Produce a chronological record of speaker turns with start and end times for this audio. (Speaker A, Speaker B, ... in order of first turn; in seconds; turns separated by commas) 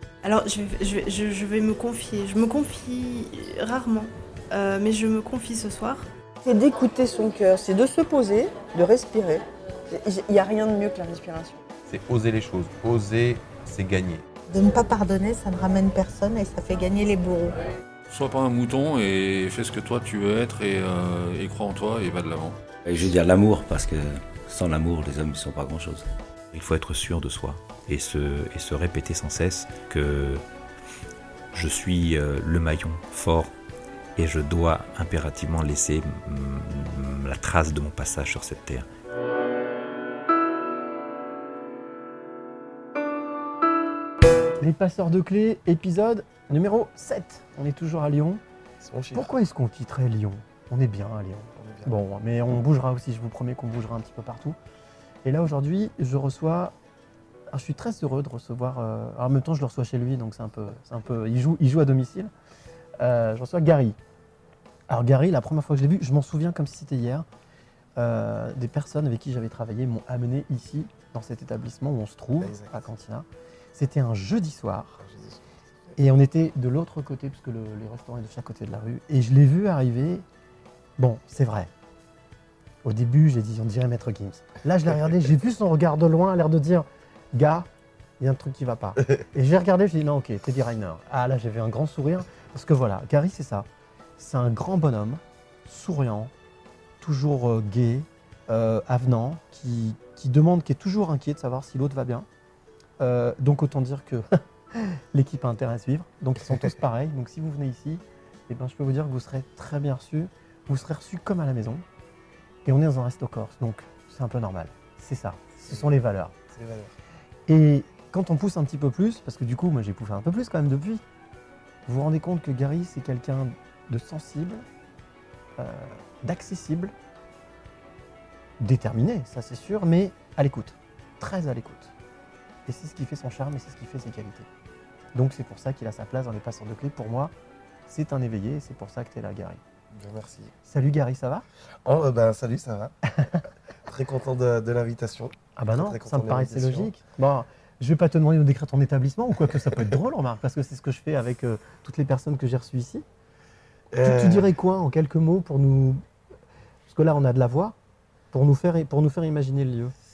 Speaker A: 0.2-6.1, Speaker B: 6.4-11.6, Speaker C: 11.9-14.2, Speaker D: 14.5-17.6, Speaker E: 18.1-22.6, Speaker F: 22.8-26.1, Speaker G: 26.5-30.4, Speaker G: 31.5-33.5, Speaker G: 34.1-38.9, Speaker H: 44.6-48.4, Speaker I: 48.8-49.4, Speaker H: 49.1-54.6, Speaker I: 51.5-51.9, Speaker H: 55.2-56.7, Speaker H: 57.5-62.3, Speaker H: 63.0-64.0, Speaker H: 64.9-67.2, Speaker H: 68.0-75.0, Speaker I: 72.4-72.9, Speaker I: 75.0-76.0, Speaker H: 76.0-80.2, Speaker H: 81.0-81.7, Speaker H: 82.8-87.7, Speaker H: 88.2-93.7, Speaker H: 94.2-96.3, Speaker H: 97.0-102.3, Speaker H: 103.0-111.8, Speaker I: 106.4-106.7, Speaker H: 112.6-116.3, Speaker I: 115.6-115.9, Speaker I: 116.5-116.9, Speaker H: 117.5-121.0, Speaker H: 121.9-124.6, Speaker H: 125.6-126.9, Speaker H: 128.6-131.9, Speaker H: 132.7-134.5, Speaker H: 135.1-137.3, Speaker H: 137.9-139.6, Speaker I: 139.9-140.5, Speaker H: 140.7-141.4, Speaker I: 141.8-142.9, Speaker H: 143.1-143.4, Speaker I: 143.8-146.9, Speaker H: 145.6-153.0, Speaker I: 149.4-150.0, Speaker I: 153.9-154.5, Speaker H: 154.0-156.0, Speaker H: 156.9-157.8, Speaker H: 158.3-159.9